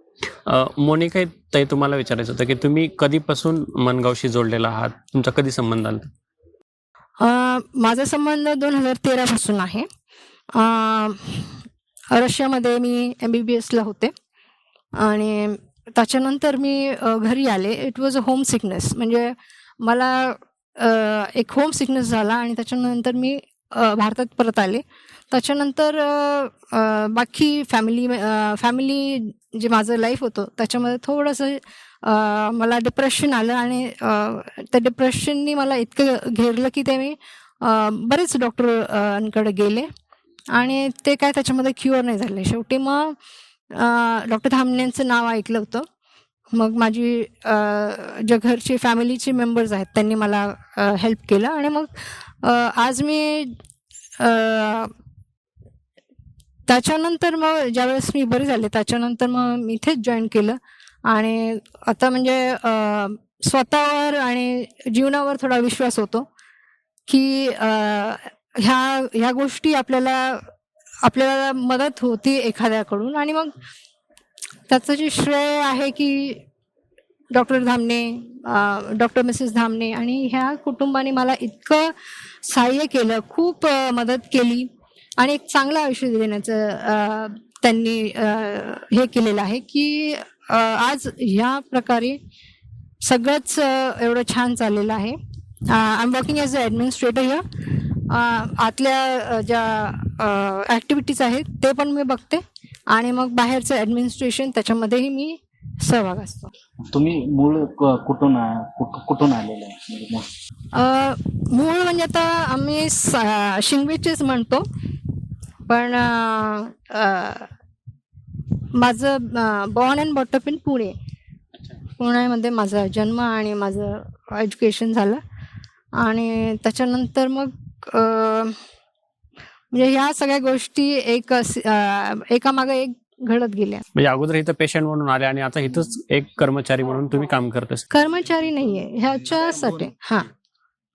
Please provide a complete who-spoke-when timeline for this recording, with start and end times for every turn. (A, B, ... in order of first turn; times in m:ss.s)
0:00.5-0:06.1 A
0:07.2-0:09.9 B
0:10.6-0:11.6 B
0:12.1-0:14.1 B
0:15.0-0:39.9 B
0:40.5-0:43.2 B
0:43.7-0:45.9 B
0:46.5-0:53.6 B
0:54.2-0:54.9 B
0:56.7-1:06.3 B
1:07.1-1:10.5 B
1:11.0-1:13.5 B
1:14.7-1:16.4 B
1:17.3-1:32.2 B
1:33.0-1:46.5 B
1:46.9-1:50.3 C
1:50.7-1:54.7 B
1:55.7-1:57.5 B
1:58.7-2:01.0 B
2:01.6-2:01.8 A
2:02.0-2:05.2 B
2:06.0-2:08.6 B
2:09.7-2:13.8 B
2:14.0-2:17.9 A
2:17.9-2:20.3 B
2:19.3-2:19.9 C